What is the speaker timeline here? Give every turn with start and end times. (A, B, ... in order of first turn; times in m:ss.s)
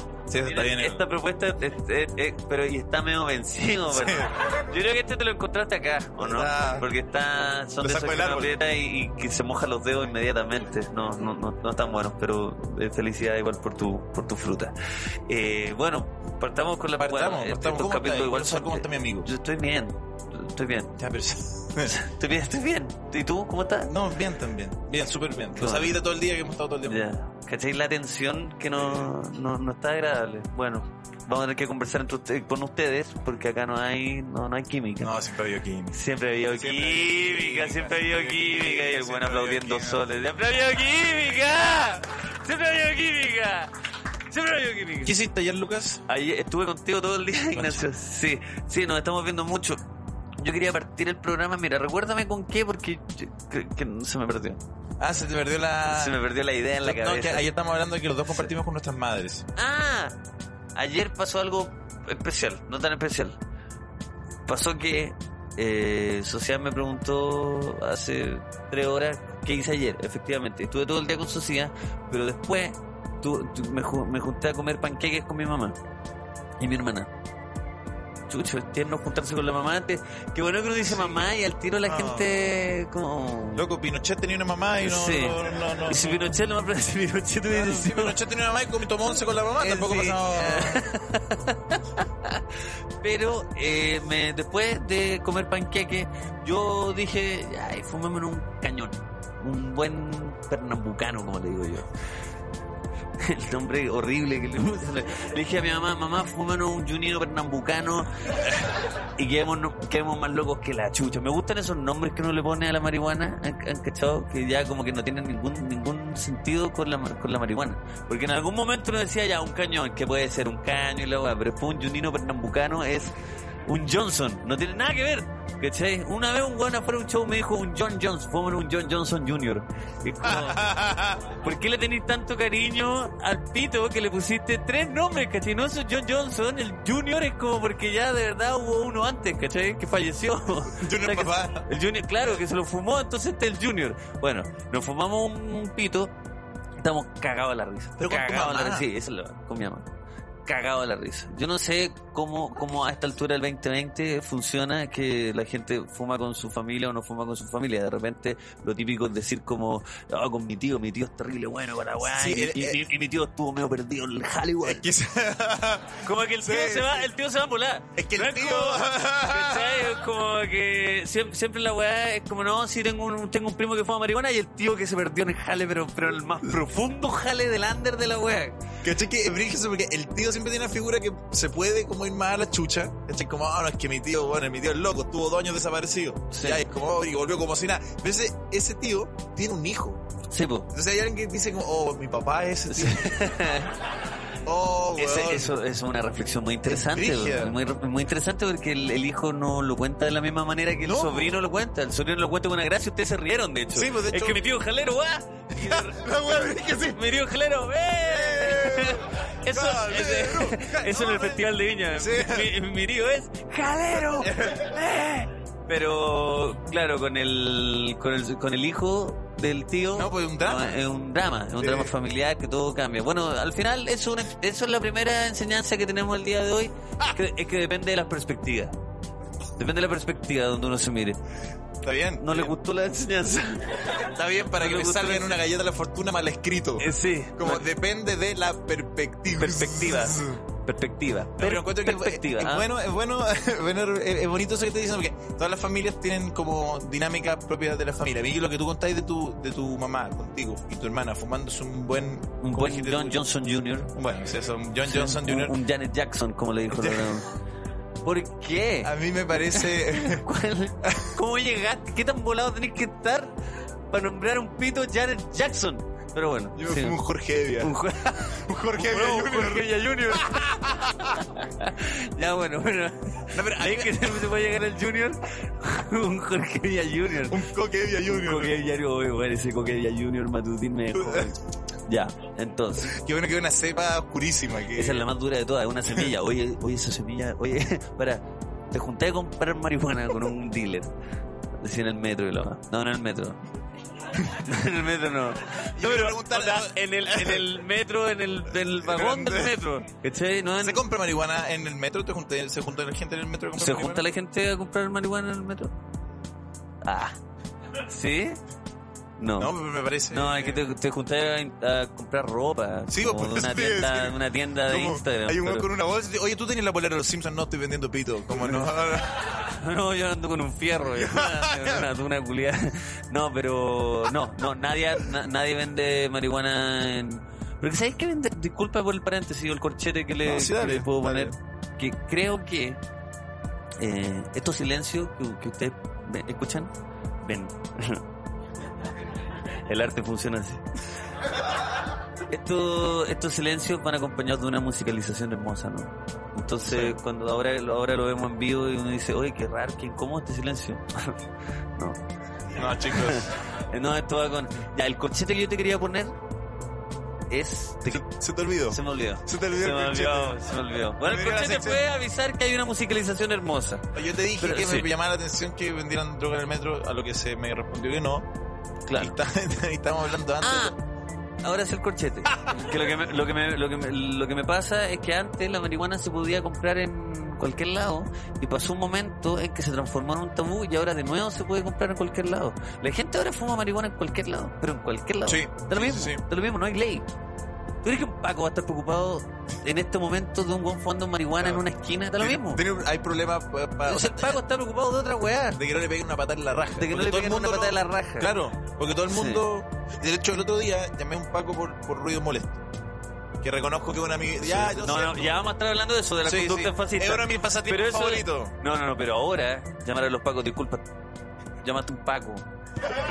0:00.3-0:01.0 A
0:00.4-0:14.7 B
0:03.9-0:04.3 A
0:06.2-0:06.9 A
0:07.8-0:08.6 A
0:15.3-0:21.0 B
0:17.0-0:19.3 A
0:21.0-0:22.0 A
0:21.8-0:23.9 B
0:23.9-0:27.0 A
0:25.6-0:26.0 B
0:26.9-0:35.2 B
0:35.0-0:36.0 A
0:35.9-0:43.7 B
0:36.5-0:40.0 A
0:44.3-0:45.2 B
0:45.0-0:46.0 A
0:46.1-0:49.8 B
0:47.5-0:47.9 A
0:50.4-0:54.6 B
0:55.0-0:56.2 A
0:55.9-0:57.4 B
0:56.8-0:59.5 A
0:59.6-1:00.2 B
1:00.8-1:03.4 B
1:04.5-1:15.8 B
1:16.6-1:17.1 B
1:18.3-1:23.6 B
1:21.9-1:22.4 A
1:23.6-1:26.2 A
1:24.8-1:28.2 B
1:27.5-1:30.9 A
1:29.6-1:32.4 B
1:33.0-1:41.9 B
1:43.2-1:48.5 B
1:49.2-2:03.1 B
2:03.7-2:10.7 B
2:10.2-2:11.3 A
2:11.3-2:26.1 B
2:20.8-2:21.7 A
2:26.8-2:29.9 B
2:28.0-2:28.9 A
2:30.5-2:44.9 B
2:42.0-2:42.8 A
2:44.6-2:47.1 A
2:46.0-2:58.6 B
2:48.0-2:50.0 A
2:58.8-3:10.0 A
3:06.3-3:06.7 B
3:10.3-3:10.7 B
3:10.7-3:13.2 A
3:12.7-3:13.8 B
3:14.4-3:15.6 A
3:15.0-3:48.8 B
3:16.7-3:17.6 A
3:20.8-3:21.4 A
3:23.7-3:24.4 A
3:25.6-3:27.0 A
3:28.0-3:32.5 A
3:34.0-3:34.8 A
3:39.9-3:40.8 A
3:41.6-3:41.9 A
3:49.6-3:51.2 B
3:51.8-3:52.5 A
3:52.2-3:54.0 B
3:54.0-4:00.4 A
3:54.5-3:55.4 B
3:56.8-3:57.6 B
3:59.3-4:02.7 B
4:01.4-4:13.2 A
4:12.4-4:13.9 B
4:14.0-4:15.6 A
4:14.8-4:17.4 B
4:16.7-4:17.2 A
4:18.0-4:18.9 B
4:18.8-4:20.3 A
4:19.5-4:23.4 B
4:20.8-4:21.2 A
4:23.9-4:27.0 B
4:26.6-4:31.2 A
4:27.6-4:37.4 B
4:33.3-4:34.3 A
4:37.2-4:38.6 A
4:38.0-4:43.0 B
4:41.0-4:41.3 A
4:42.8-4:45.1 A
4:44.7-4:50.9 B
4:51.6-4:53.4 B
4:54.2-5:00.8 B
4:55.8-4:57.5 A
4:58.5-4:59.6 A
5:00.6-5:04.1 A
5:03.6-5:05.7 B
5:06.8-5:07.2 B
5:07.8-5:08.4 B
5:09.2-5:09.6 B
5:09.4-5:10.6 A
5:10.1-5:15.7 B
5:12.9-5:19.2 A
5:19.3-5:32.8 B
5:20.9-5:21.9 A
5:30.2-5:31.4 A
5:33.8-5:36.7 B
5:37.2-5:38.0 B
5:39.7-5:40.6 B
5:42.3-5:51.2 B
5:46.7-5:47.0 A
5:52.5-5:53.3 A
5:52.8-5:56.2 B
5:57.3-5:58.0 B
5:57.8-6:00.4 A
5:58.7-6:03.8 B
6:01.0-6:01.8 A
6:03.9-6:08.3 A
6:04.4-6:04.9 B
6:08.9-6:09.2 B
6:09.0-6:10.8 A
6:10.4-6:10.8 B
6:11.4-6:27.1 B
6:25.3-6:26.2 A
6:27.8-6:32.6 B
6:32.2-6:34.4 A
6:33.8-6:35.6 B
6:35.5-6:42.6 A
6:36.8-6:38.3 B
6:39.1-6:39.4 B
6:43.4-6:45.4 A
6:44.4-6:50.8 B
6:46.2-6:48.6 A
6:51.6-6:52.4 B